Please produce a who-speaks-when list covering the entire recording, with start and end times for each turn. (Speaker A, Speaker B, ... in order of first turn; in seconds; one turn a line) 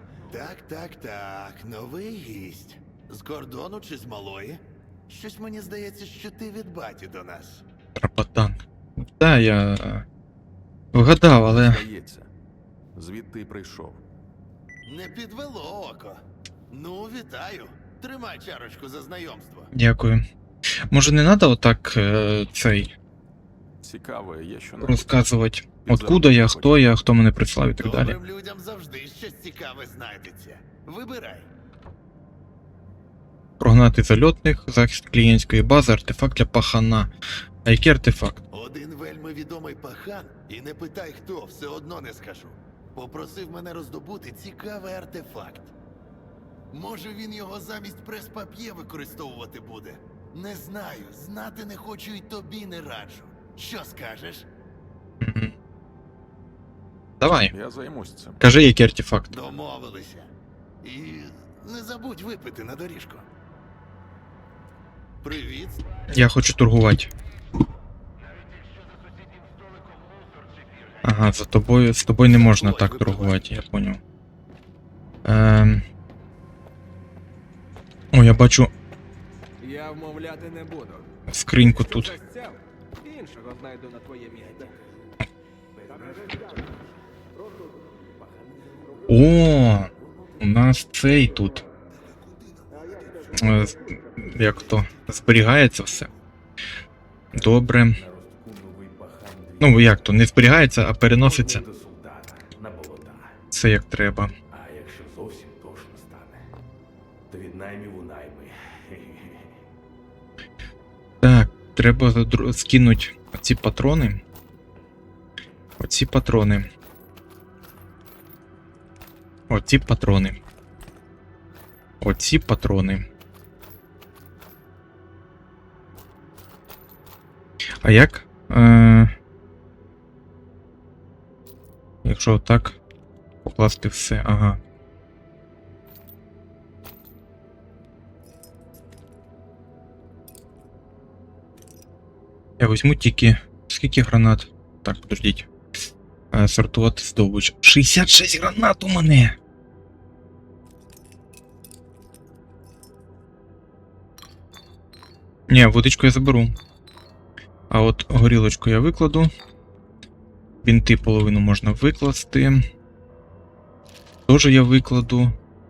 Speaker A: 0.3-7.6
Speaker B: 8.0-10.1
Speaker B: 10.9-11.8
Speaker C: 11.4-12.3
Speaker C: 13.0-14.0
Speaker A: 14.9-19.7
Speaker B: 19.7-20.2
Speaker B: 20.9-22.9
Speaker C: 23.8-25.1
Speaker B: 24.8-28.2
Speaker C: 25.8-26.8
Speaker A: 27.8-31.5
Speaker B: 33.6-37.1
Speaker B: 37.6-38.4
Speaker A: 38.5-45.7
Speaker A: 46.7-54.5
Speaker B: 55.2-55.5
Speaker B: 57.2-57.5
Speaker C: 57.5-58.4
Speaker B: 58.4-59.4
Speaker A: 59.3-60.3
Speaker A: 60.8-63.3
Speaker A: 65.2-65.8
Speaker B: 66.1-67.1
Speaker B: 71.0-74.0
Speaker A: 72.3-73.4
Speaker B: 75.2-75.8
Speaker B: 78.1-78.7
Speaker D: 79.6-81.1
Speaker B: 81.3-82.2
Speaker D: 81.7-84.4
Speaker B: 89.1-91.6
Speaker E: 92.0-93.7
Speaker B: 93.4-96.1
Speaker B: 97.3-98.0
Speaker E: 97.5-100.0
Speaker B: 99.6-101.6
Speaker E: 101.2-103.4
Speaker B: 103.5-104.3
Speaker E: 104.5-106.4
Speaker E: 107.3-109.5
Speaker B: 111.2-114.2
Speaker B: 115.8-116.7
Speaker B: 119.5-120.4
Speaker B: 122.0-123.1
Speaker B: 127.8-129.1
Speaker B: 132.0-132.8
Speaker B: 133.4-134.6
Speaker B: 142.6-145.5
Speaker B: 146.3-149.4
Speaker B: 155.5-156.5
Speaker B: 157.7-159.3
Speaker B: 160.6-162.6
Speaker B: 164.3-165.3